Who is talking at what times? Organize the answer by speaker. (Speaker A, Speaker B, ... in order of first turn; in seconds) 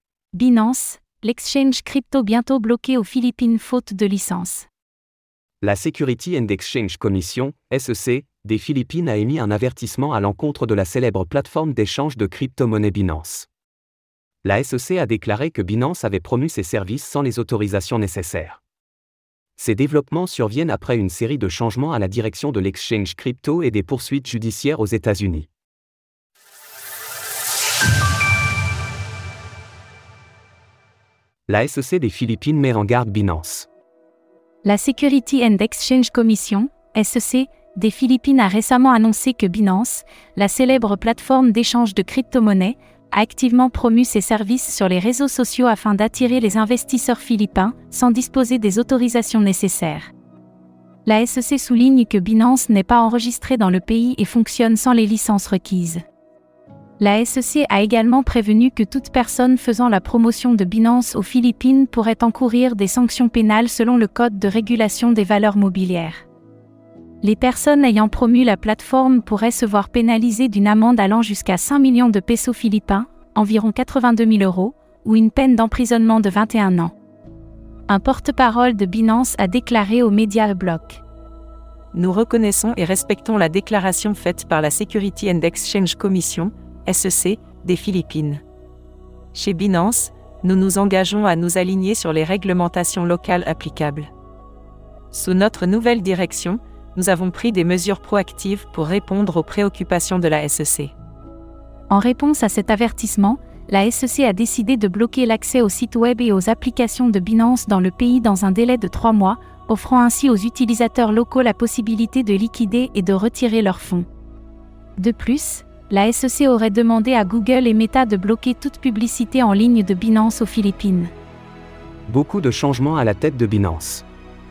Speaker A: 0.3-4.7, 34.6-50.1, 51.0-56.0, 57.0-66.2, 67.2-76.9, 77.9-81.0, 101.9-114.0, 115.0-121.1
Speaker B: 5.6-13.5, 14.4-18.6, 19.6-25.5, 31.5-33.7, 122.1-124.0
Speaker C: 81.9-88.4, 89.3-94.1, 95.1-100.9